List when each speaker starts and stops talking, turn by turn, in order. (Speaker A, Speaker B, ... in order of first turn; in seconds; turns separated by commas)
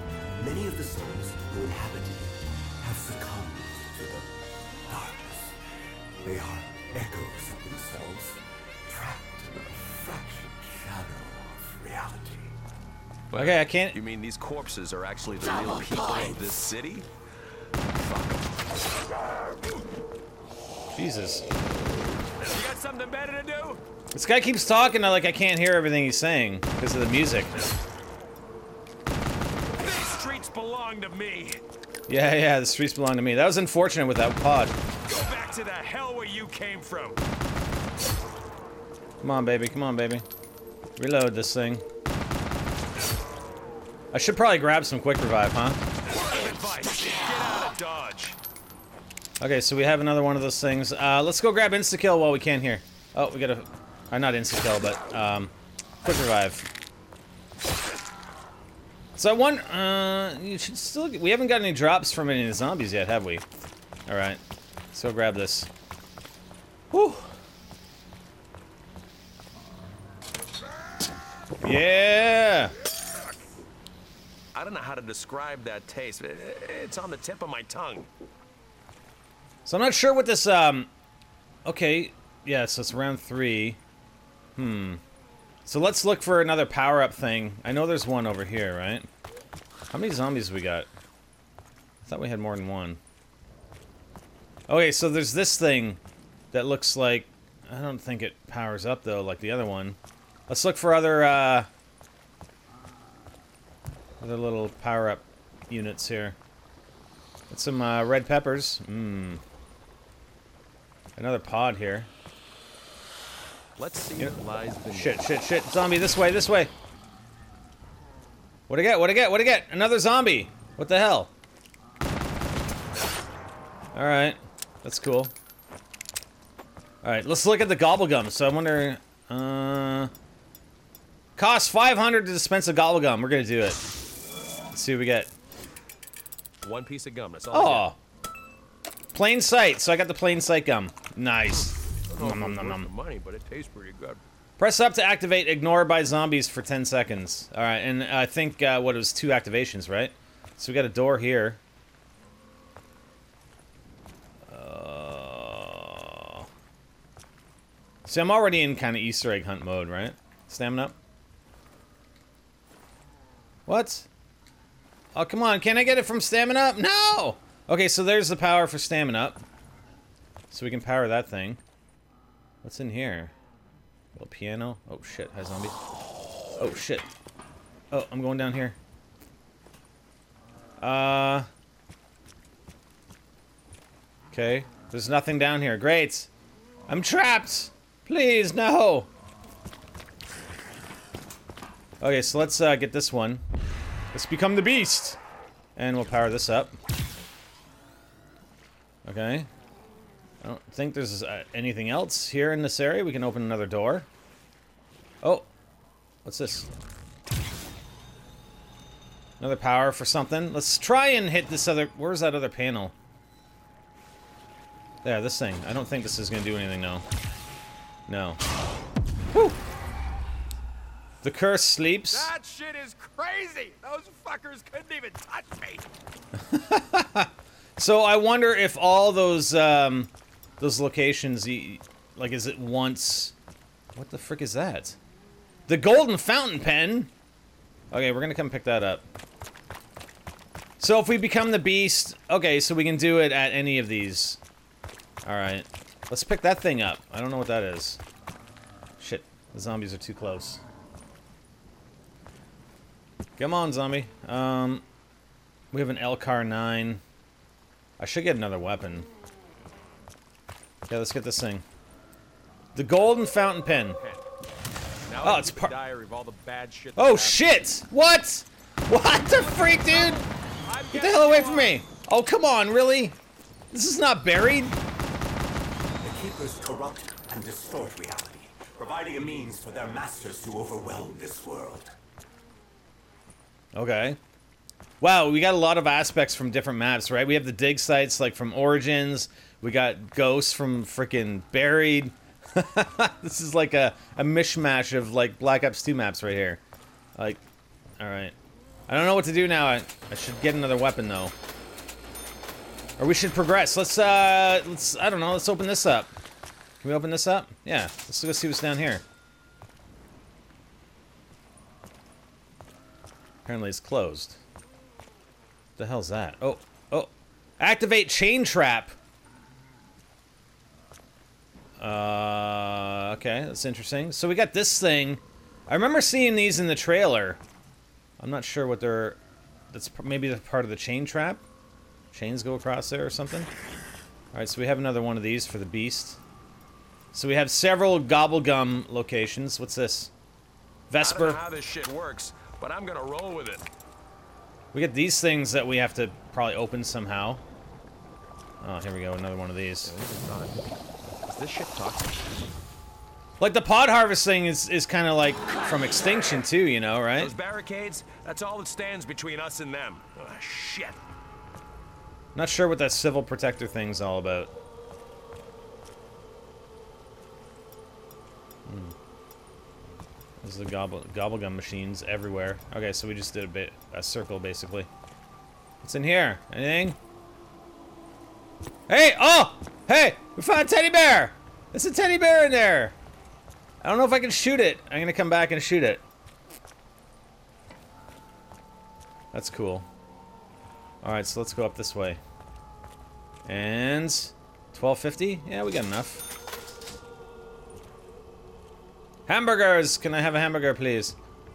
Speaker A: 0.3-4.3, Speaker A: 4.8-5.6, Speaker A: 6.2-12.5, Speaker B: 13.3-17.1, Speaker C: 13.3-14.0, Speaker A: 15.4-16.6, Speaker B: 17.9-18.6, Speaker C: 20.9-21.4, Speaker B: 22.4-23.8, Speaker C: 24.1-27.6, Speaker B: 29.8-31.6, Speaker C: 32.1-34.8, Speaker B: 35.1-37.2, Speaker C: 39.2-40.2, Speaker C: 41.0-41.8, Speaker C: 44.1-45.8, Speaker B: 46.1-48.4, Speaker C: 49.4-55.5, Speaker C: 56.0-56.7, Speaker C: 59.1-63.4, Speaker C: 64.1-64.4, Speaker C: 64.9-65.7, Speaker C: 66.9-67.3, Speaker C: 71.6-72.7, Speaker B: 74.5-78.1, Speaker C: 79.7-80.9, Speaker C: 81.6-83.8, Speaker C: 84.5-85.0, Speaker C: 85.7-89.1, Speaker C: 89.9-90.9, Speaker C: 92.0-93.0, Speaker C: 94.7-96.0, Speaker C: 96.5-100.0, Speaker C: 100.5-101.7, Speaker C: 104.2-106.3, Speaker C: 107.5-109.4, Speaker C: 111.2-112.1, Speaker B: 113.8-115.3, Speaker C: 114.9-116.7, Speaker C: 118.7-121.3, Speaker C: 123.9-125.3, Speaker C: 127.0-130.1, Speaker C: 131.3-133.8, Speaker C: 134.7-135.3, Speaker B: 136.6-137.9, Speaker C: 137.5-138.0, Speaker C: 139.1-142.9, Speaker B: 142.1-144.2, Speaker C: 144.6-151.6, Speaker C: 154.5-156.5, Speaker C: 158.0-160.9, Speaker C: 163.7-164.1, Speaker C: 165.1-169.4, Speaker C: 170.5-171.6, Speaker C: 172.6-173.3, Speaker C: 174.1-175.8, Speaker C: 176.6-177.1, Speaker C: 177.9-178.8, Speaker C: 180.8-181.5, Speaker C: 184.3-186.3, Speaker C: 186.9-189.1, Speaker C: 192.0-193.4, Speaker C: 194.1-195.2, Speaker C: 195.8-196.8, Speaker C: 199.1-199.5, Speaker C: 200.4-204.1, Speaker C: 205.2-205.5, Speaker C: 206.2-206.7, Speaker C: 209.4-212.9, Speaker C: 215.0-217.0, Speaker C: 218.1-218.4, Speaker C: 219.3-219.6, Speaker C: 221.2-222.3, Speaker B: 222.1-225.8, Speaker C: 226.3-233.3, Speaker C: 233.9-235.0, Speaker C: 235.7-237.1, Speaker C: 237.9-239.0, Speaker C: 240.8-244.4, Speaker C: 245.2-248.0, Speaker C: 249.0-250.6, Speaker C: 253.4-254.8, Speaker C: 255.7-257.0, Speaker C: 258.0-259.1, Speaker C: 260.9-261.6, Speaker C: 262.7-264.0, Speaker B: 263.9-264.2, Speaker B: 265.1-267.5, Speaker C: 265.2-265.7, Speaker C: 267.0-270.2, Speaker B: 269.2-271.8, Speaker C: 270.9-273.2, Speaker C: 273.7-274.8, Speaker A: 276.0-281.9, Speaker C: 283.7-284.2, Speaker C: 285.0-296.6, Speaker C: 297.1-297.4, Speaker C: 298.0-298.3, Speaker C: 298.9-301.3, Speaker C: 303.0-306.1, Speaker C: 306.8-309.0, Speaker C: 313.4-314.4, Speaker C: 315.8-318.9, Speaker C: 321.8-327.4, Speaker C: 328.2-329.2, Speaker C: 329.7-331.4, Speaker C: 332.1-333.5, Speaker C: 334.3-336.2, Speaker C: 337.1-340.1, Speaker C: 340.9-341.4, Speaker B: 341.0-343.6, Speaker C: 344.7-347.4, Speaker C: 348.6-349.9, Speaker B: 349.8-352.1, Speaker C: 353.4-357.3, Speaker B: 357.1-361.0, Speaker C: 362.3-364.5, Speaker C: 368.6-368.9, Speaker C: 370.4-374.9, Speaker C: 375.8-377.0, Speaker C: 378.9-382.9, Speaker C: 383.8-386.0, Speaker C: 389.3-389.9, Speaker C: 391.0-392.2, Speaker C: 393.4-396.3, Speaker C: 399.3-401.2